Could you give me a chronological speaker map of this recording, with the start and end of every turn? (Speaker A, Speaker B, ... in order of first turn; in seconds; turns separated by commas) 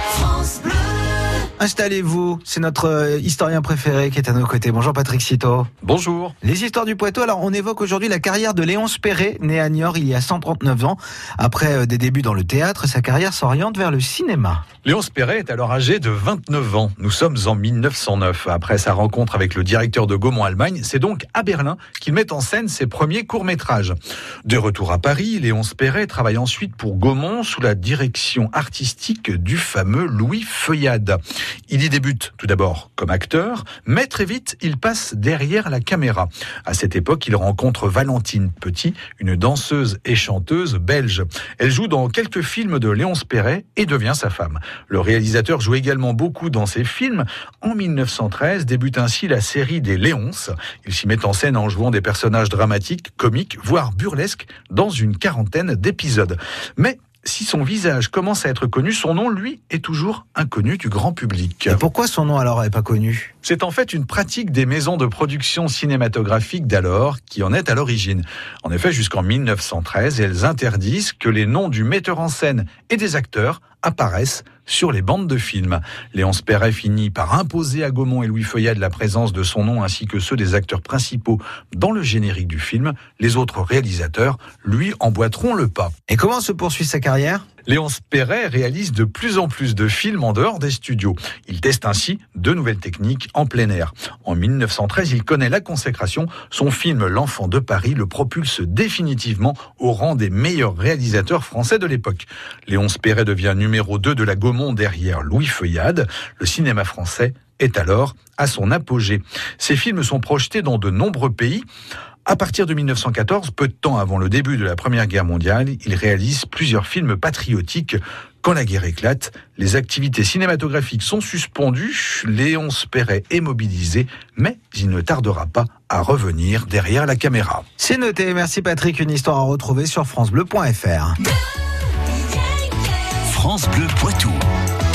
Speaker A: 0.2-0.7, Speaker B: 1.6-5.7, Speaker C: 5.8-6.3, Speaker B: 6.4-14.6, Speaker C: 14.8-61.8, Speaker B: 61.7-63.3, Speaker C: 63.4-85.9, Speaker B: 86.1-87.4, Speaker C: 87.7-111.6, Speaker C: 112.2-127.6, Speaker B: 127.8-131.2, Speaker A: 133.0-134.4